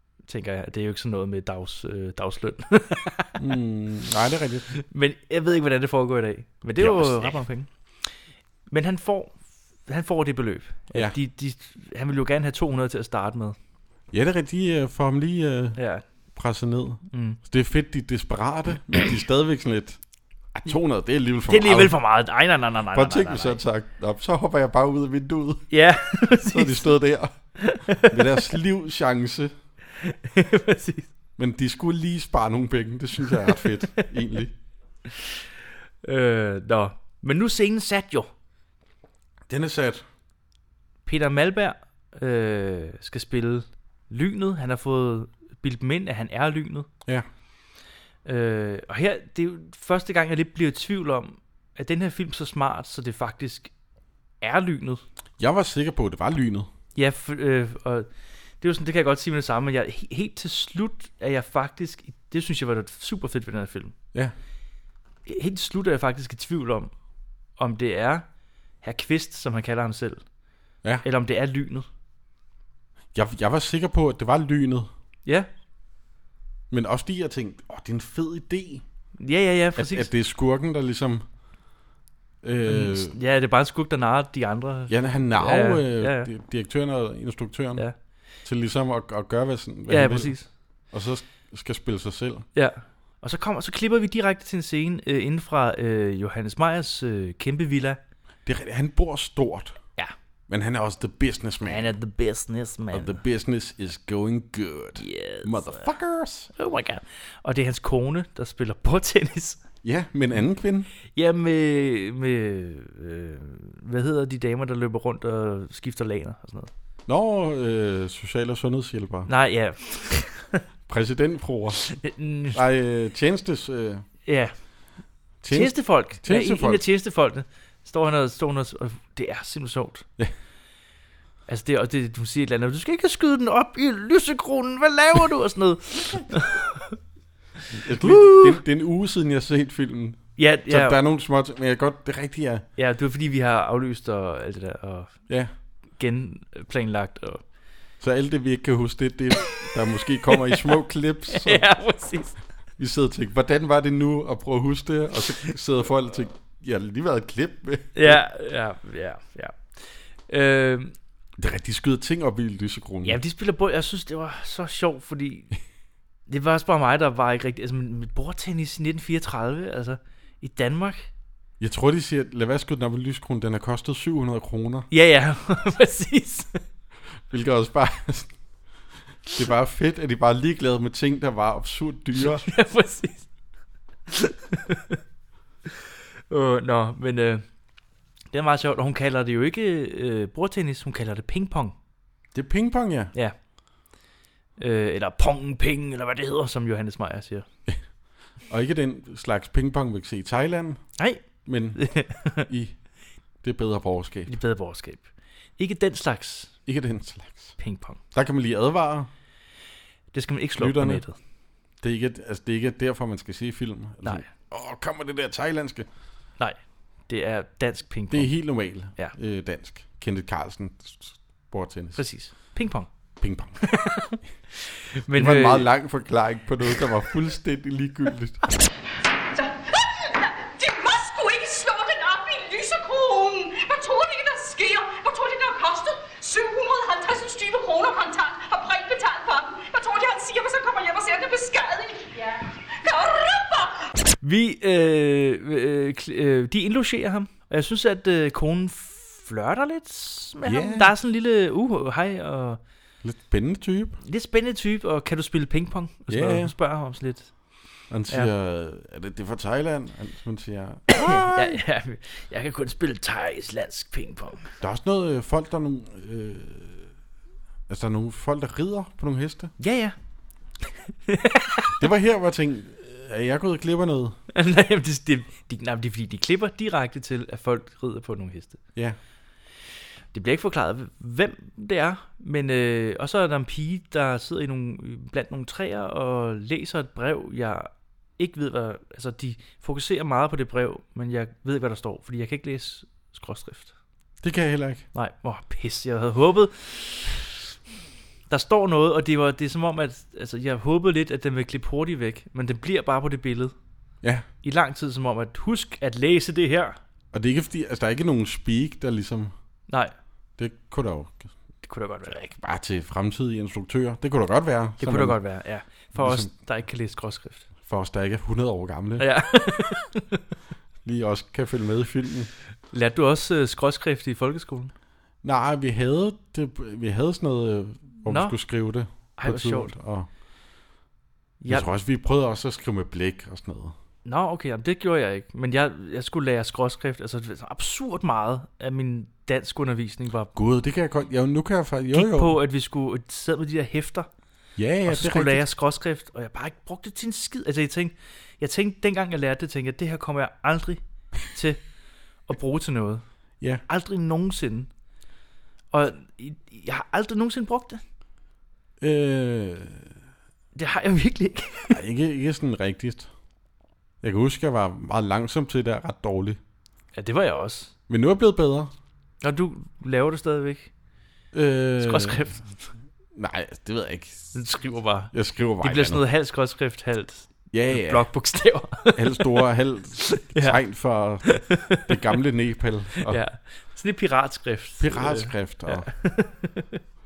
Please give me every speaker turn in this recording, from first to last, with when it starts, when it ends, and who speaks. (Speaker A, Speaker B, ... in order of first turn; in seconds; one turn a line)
Speaker A: 0.3-3.4
Speaker B: 3.4-4.7
Speaker A: 4.8-8.1
Speaker B: 6.8-7.4
Speaker A: 8.7-9.3
Speaker A: 9.9-13.6
Speaker B: 14.1-15.8
Speaker A: 15.8-16.0
Speaker B: 16.3-20.0
Speaker A: 17.1-17.4
Speaker B: 20.5-22.0
Speaker A: 21.5-23.6
Speaker B: 22.9-29.5
Speaker A: 25.7-26.9
Speaker A: 27.6-28.4
Speaker A: 30.0-31.1
Speaker B: 31.4-34.5
Speaker A: 36.0-38.3
Speaker B: 39.5-40.0
Speaker A: 41.0-46.9
Speaker A: 48.2-53.7
Speaker A: 54.4-55.0
Speaker B: 55.4-56.7
Speaker A: 56.9-58.1
Speaker A: 58.6-63.9
Speaker A: 65.2-66.9
Speaker A: 67.6-68.2
Speaker A: 68.8-70.2
Speaker A: 71.0-71.9
Speaker B: 73.1-74.9
Speaker B: 76.7-78.8
Speaker A: 79.2-80.1
Speaker B: 79.7-81.2
Speaker B: 82.4-83.2
Speaker A: 82.7-86.3
Speaker B: 84.9-87.8
Speaker B: 88.4-90.3
Speaker A: 89.9-90.5
Speaker B: 90.9-92.5
Speaker A: 92.5-98.0
Speaker B: 98.5-99.8
Speaker B: 100.5-101.9
Speaker A: 101.6-103.2
Speaker B: 102.9-106.5
Speaker A: 105.0-105.8
Speaker A: 106.5-109.6
Speaker B: 109.8-110.9
Speaker A: 111.1-116.7
Speaker B: 117.1-119.3
Speaker A: 119.3-120.6
Speaker B: 120.9-122.0
Speaker A: 121.9-122.6
Speaker B: 122.5-124.0
Speaker A: 124.2-124.5
Speaker B: 125.4-126.8
Speaker A: 125.5-130.0
Speaker A: 131.5-137.0
Speaker B: 137.7-142.7
Speaker A: 138.0-138.6
Speaker A: 140.4-141.0
Speaker A: 142.8-145.2
Speaker A: 145.9-147.4
Speaker B: 148.0-151.7
Speaker A: 151.3-152.4
Speaker B: 152.8-158.2
Speaker A: 157.9-160.9
Speaker B: 161.4-163.2
Speaker A: 163.0-165.5
Speaker A: 166.3-171.1
Speaker B: 171.6-174.9
Speaker A: 174.9-176.6
Speaker B: 177.3-178.3
Speaker B: 179.3-182.4
Speaker A: 182.2-183.3
Speaker A: 184.1-185.0
Speaker A: 186.3-187.4
Speaker A: 188.3-191.7
Speaker B: 192.3-193.1
Speaker A: 194.6-197.4
Speaker B: 198.5-200.8
Speaker A: 201.0-201.2
Speaker B: 201.4-201.8
Speaker A: 201.8-202.4
Speaker B: 202.4-202.8
Speaker B: 203.4-204.3
Speaker A: 204.3-205.1
Speaker A: 205.6-206.5
Speaker B: 206.7-207.6
Speaker A: 207.6-208.0
Speaker B: 208.1-209.1
Speaker A: 210.1-211.2
Speaker B: 210.6-211.0
Speaker B: 211.8-215.9
Speaker A: 214.0-214.3
Speaker A: 216.4-218.3
Speaker B: 218.1-222.0
Speaker A: 221.9-222.9
Speaker B: 223.2-223.6
Speaker A: 223.6-225.7
Speaker B: 225.1-228.4
Speaker C: 229.3-243.9
Speaker A: 244.2-252.6
Speaker B: 250.4-250.9
Speaker B: 253.0-254.0
Speaker A: 254.0-257.3
Speaker B: 256.1-256.5
Speaker B: 257.9-261.6
Speaker A: 260.9-264.5
Speaker B: 264.6-266.9
Speaker B: 267.7-269.5
Speaker A: 269.6-269.9
Speaker A: 271.1-271.9
Speaker B: 271.8-274.2
Speaker A: 274.3-278.6
Speaker A: 280.1-293.7
Speaker B: 294.2-294.8
Speaker A: 294.9-297.3
Speaker A: 298.3-303.5
Speaker A: 304.4-306.8
Speaker B: 307.1-309.3
Speaker B: 310.4-311.3
Speaker A: 311.6-312.3
Speaker B: 312.3-315.2
Speaker A: 314.8-317.4
Speaker B: 315.9-316.3
Speaker B: 317.6-319.1
Speaker A: 319.0-320.2
Speaker B: 320.8-322.3
Speaker A: 322.7-324.7
Speaker B: 325.2-330.1
Speaker A: 328.1-328.4
Speaker A: 329.2-329.7
Speaker B: 331.5-333.7
Speaker A: 334.0-340.3
Speaker B: 340.3-342.4
Speaker A: 341.9-344.1
Speaker B: 344.6-345.4
Speaker A: 344.9-351.6
Speaker A: 352.3-353.0
Speaker A: 353.7-354.7
Speaker A: 355.7-357.8
Speaker B: 358.8-359.9
Speaker A: 360.5-361.8
Speaker B: 361.7-363.1
Speaker B: 364.0-366.4
Speaker A: 366.9-367.7
Speaker B: 367.9-368.7
Speaker A: 369.2-370.7
Speaker B: 371.3-372.2
Speaker A: 371.8-372.6
Speaker B: 373.1-374.3
Speaker A: 374.3-379.4
Speaker B: 375.1-376.0
Speaker B: 377.5-378.1
Speaker B: 378.9-383.2
Speaker A: 380.1-380.6
Speaker A: 381.3-382.0
Speaker A: 383.0-386.8
Speaker B: 384.8-385.9